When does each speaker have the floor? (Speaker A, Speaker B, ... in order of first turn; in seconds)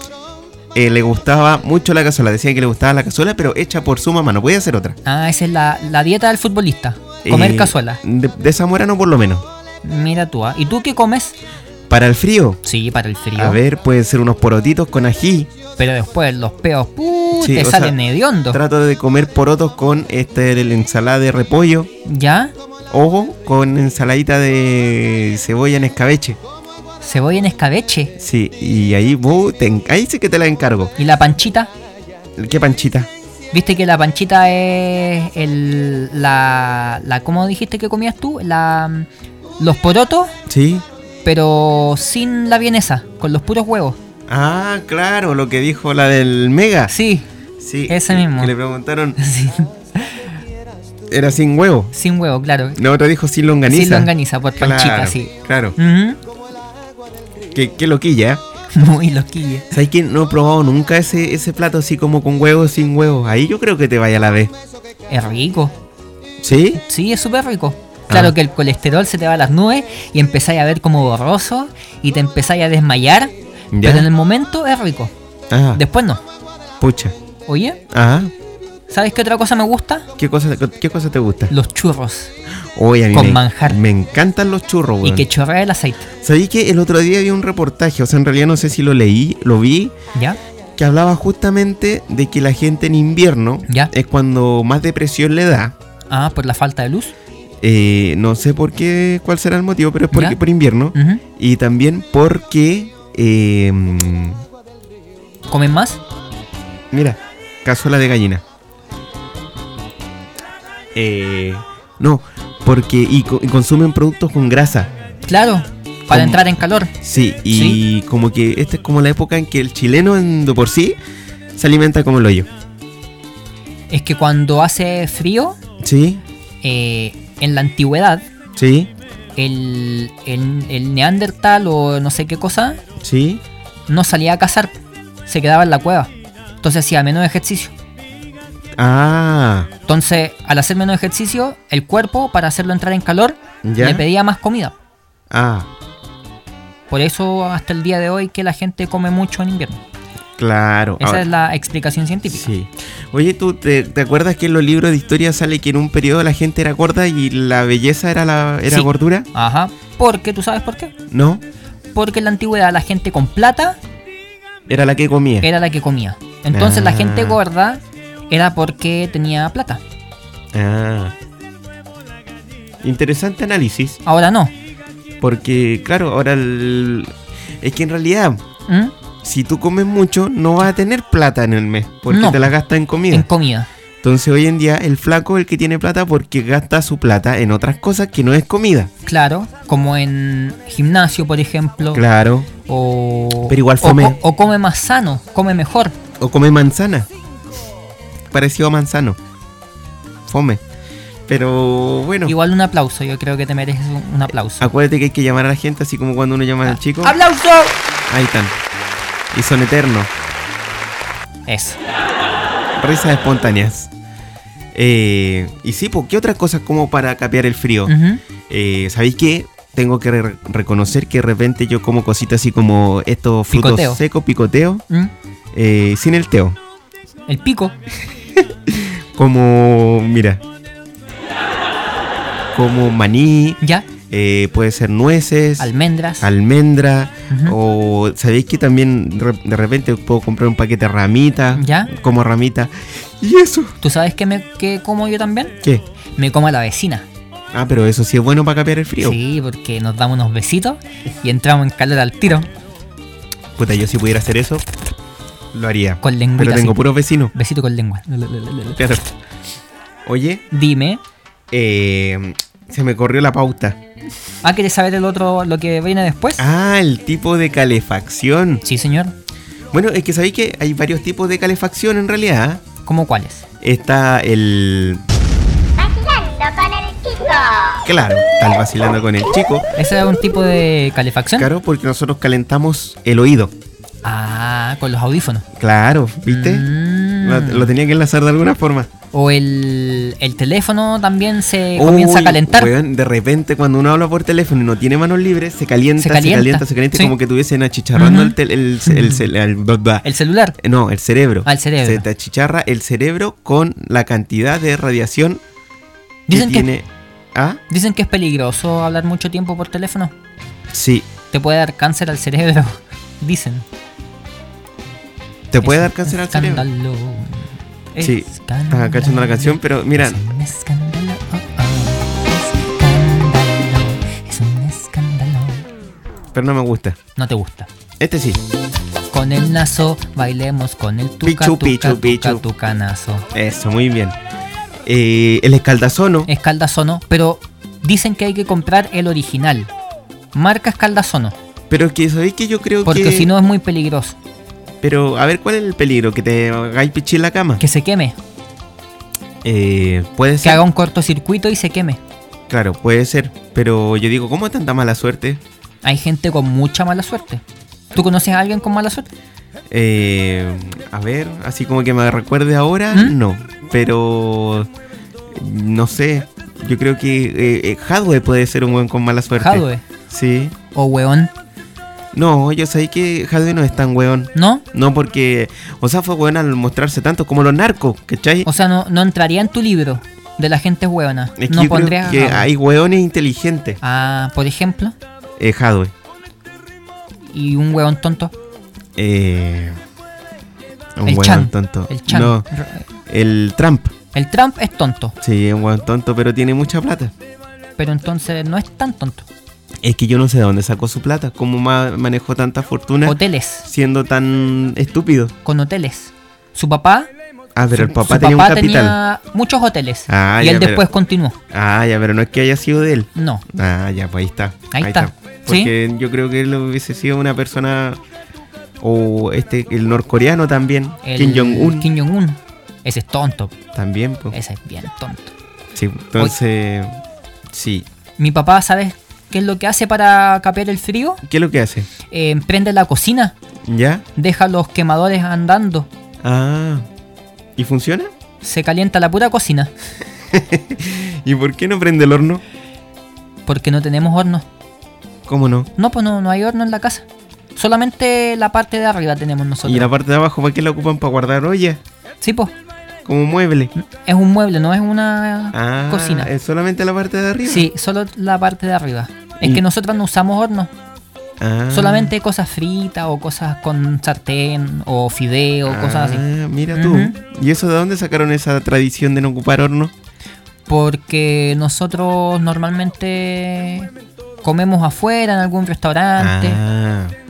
Speaker A: 0.7-5.0, 7.2-9.4, 11.9-12.6, 13.3-15.5, 17.4-18.0, 18.5-21.9, 22.9-26.4, 28.2-30.9, 32.4-33.1, 40.5-40.8, 44.3-46.9, 47.6-49.2, 51.1-51.9, 52.7-55.8, 57.5-58.4, 59.7-64.5, 66.4-66.8, 68.1-68.3, 73.7-74.1, 75.5-75.8, 76.8-77.1, 77.9-78.3, 80.2-81.5, 82.7-85.3, 86.2-89.9, 90.8-95.7, 97.6-104.4, 106.9-108.4, 110.9-114.9, 116.1-116.4, 117.0-121.0, 121.5-122.5, 125.8-126.2, 128.6-128.9, 133.0-133.4, 138.8-139.7, 143.6-144.1, 145.3-145.7, 150.4-151.2, 152.3-159.3, 161.1-161.4, 164.7-165.5, 166.5-167.4, 170.5-171.1, 172.8-174.0, 175.2-178.4, 179.2-183.3, 184.0-188.9, 191.9-192.5, 193.5-194.2, 196.2-197.1, 198.3-199.2, 200.3-200.6, 201.3-202.3, 204.6-207.2, 208.1-208.5, 209.3-210.1, 212.8-213.9, 214.7-217.9, 218.5-224.8, 225.5-226.6, 228.3-230.4, 232.5-243.7, 247.5-249.2, 253.6-254.6, 255.5-257.3, 258.8-259.1, 260.1-260.4, 261.5-263.8, 266.4-268.6, 269.7-272.6, 273.6-275.0, 277.8-279.7, 281.4-283.5, 285.5-286.7, 287.2-288.9, 291.7-300.0, 300.6-305.4, 306.3-307.6, 310.7-311.1, 315.5-316.6, 318.0-320.2, 326.3-327.0, 328.0-328.4, 331.2-332.4, 333.3-334.2, 334.9-336.3, 341.7-343.3, 344.8-347.6, 349.4-350.6, 352.5-355.4, 359.7-364.7, 365.3-370.5, 372.1-378.5, 381.4-383.8, 385.4-385.9, 389.0-389.8, 391.0-392.4, 393.1-393.9, 395.2-397.1, 399.8-405.3, 407.6-409.0, 410.1-410.9, 411.5-418.0, 418.8-421.9, 423.7-424.4, 425.7-427.0, 427.5-427.9, 431.2-431.9, 433.6-434.0, 436.2-436.9, 437.6-438.1, 440.3-442.4, 445.2-445.7, 449.6-451.8, 453.0-453.7, 455.5-457.7, 461.4-462.1, 465.6-469.9, 476.2-477.1
Speaker B: 5.0-8.0, 9.8-11.3, 12.6-13.6, 15.8-18.6, 22.0-22.5, 27.0-28.1, 31.0-31.7, 33.5-39.1, 39.6-40.3, 41.2-44.0, 46.9-47.3, 47.9-48.5, 49.2-50.3, 51.9-52.8, 53.7-56.2, 58.7-59.7, 65.1-65.8, 66.8-75.1, 75.7-76.2, 77.5-77.8, 78.9-80.1, 81.5-82.3, 83.1-83.8, 85.0-86.1, 96.1-97.1, 100.1-100.4, 100.9-101.2, 105.5-106.0, 115.3-116.9, 117.5-117.8, 123.9-125.6, 126.6-128.2, 129.3-132.8, 133.9-136.1, 136.6-137.7, 139.9-144.7, 146.9-149.8, 151.0-152.5, 158.7-160.9, 161.9-163.8, 165.4-169.8, 174.1-174.5, 178.7-178.9, 182.1-182.5, 183.1-183.7, 189.1-192.0, 192.7-195.9, 202.2-204.7, 206.6-207.8, 211.5-211.8, 217.8-218.2, 223.5-224.0, 227.3-227.8, 233.6-233.9, 235.6-236.3, 237.3-237.6, 241.5-241.9, 243.8-245.5, 246.2-247.1, 249.0-252.5, 256.0-256.8, 257.3-258.8, 260.5-261.0, 264.4-266.4, 268.6-269.1, 272.9-273.4, 279.8-281.5, 284.0-285.4, 286.3-287.7, 289.1-292.7, 296.0-297.1, 297.9-299.2, 300.0-300.6, 301.4-302.1, 306.3-306.7, 307.7-310.1, 311.3-313.6, 315.6-325.6, 327.1-327.7, 329.1-333.3, 336.3-339.7, 340.3-341.4, 342.8-344.1, 347.6-348.2, 350.4-352.0, 355.8-357.4, 357.9-359.1, 362.9-363.2, 369.4-369.8, 370.7-371.3, 374.3-374.6, 378.4-382.5, 383.8-384.9, 387.3-388.3, 391.0-392.9, 394.1-395.1, 397.8-399.2, 403.0-403.6, 405.4-407.1, 407.7-411.4, 413.1-413.4, 414.7-415.7, 421.0-423.5, 424.3-425.3, 428.2-431.2, 432.1-433.4, 434.1-435.9, 438.4-439.7, 443.4-444.4, 445.8-449.9, 452.2-452.5, 453.8-456.3, 457.4-460.7, 461.7-467.2, 470.7-473.9, 474.4-476.6
Speaker C: 275.8-277.8